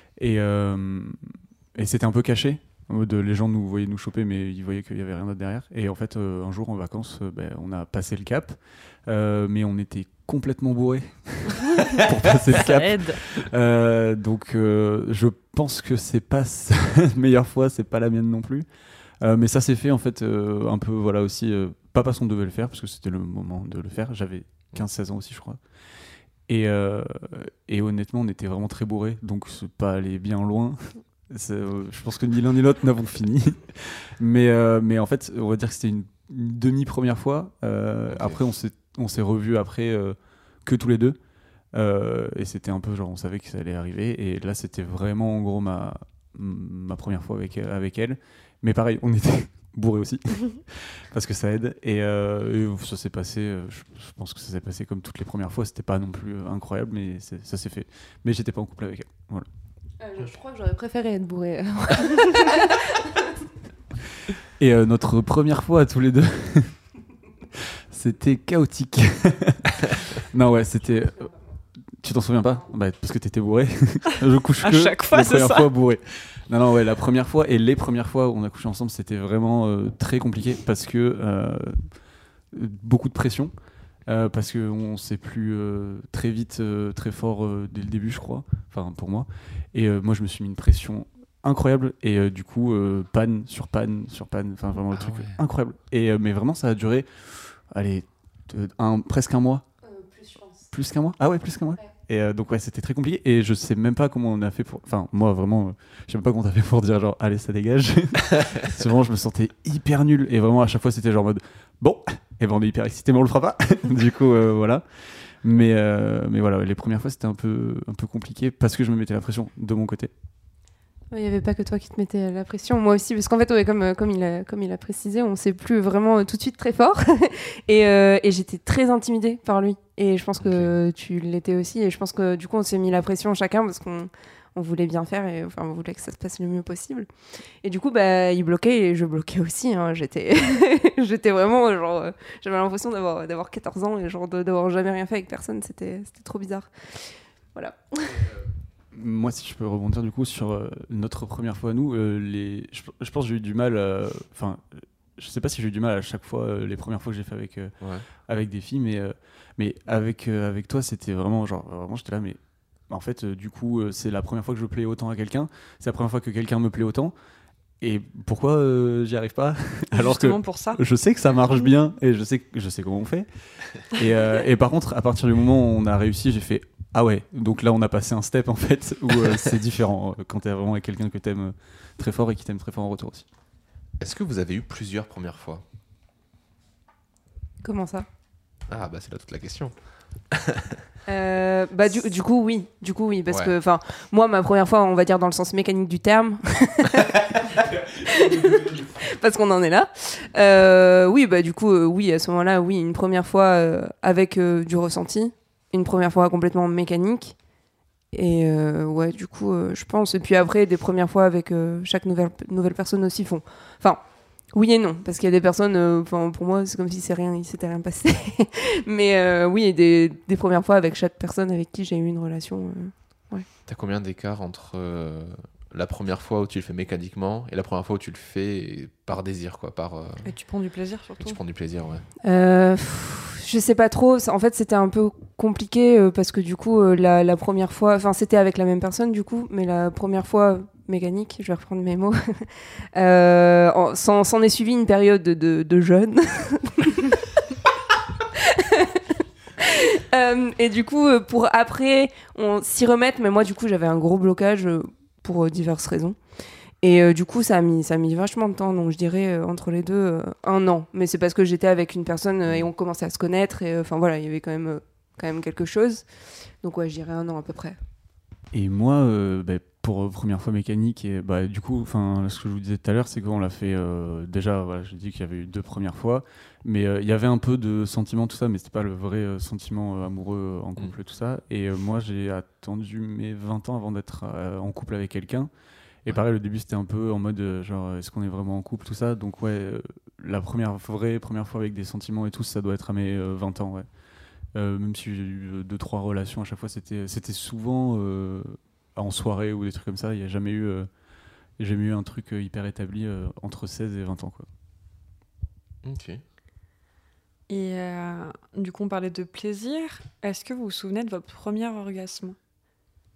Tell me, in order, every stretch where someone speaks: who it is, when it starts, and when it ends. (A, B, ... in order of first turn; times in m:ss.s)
0:00.2-0:18.6 A
0:12.5-0:13.2 B
0:19.2-0:25.6 A
0:26.5-0:41.2 A
0:38.1-0:38.4 C
0:41.7-0:59.5 A
1:00.0-1:03.1 D
1:04.6-1:06.8 A
1:07.5-1:21.9 A
1:14.6-1:15.7 B
1:22.5-1:23.5 A
1:24.0-1:39.6 A
1:34.9-1:35.4 C
1:39.8-1:40.6 D
1:40.7-2:00.1 A
2:01.1-2:17.1 D
2:10.4-2:10.7 C
2:17.6-2:28.2 D
2:28.1-2:37.7 A
2:38.2-2:47.1 A
2:47.8-3:03.2 A
2:49.9-2:50.8 B
3:04.0-3:05.6 C
3:07.6-3:08.0 D
3:08.7-3:10.8 C
3:11.1-3:27.4 D
3:28.1-3:43.4 D
3:43.6-3:50.3 C
3:50.2-3:51.4 B
3:51.2-3:52.0 C
3:52.2-4:07.2 D
4:08.3-4:09.0 D
4:09.6-4:16.2 D
4:16.8-4:26.0 D
4:26.6-4:27.8 D
4:28.5-4:45.5 A
4:46.0-4:53.8 A
4:54.5-5:00.9 A
5:01.6-5:04.5 A
5:05.8-5:06.2 C
5:07.5-5:12.4 B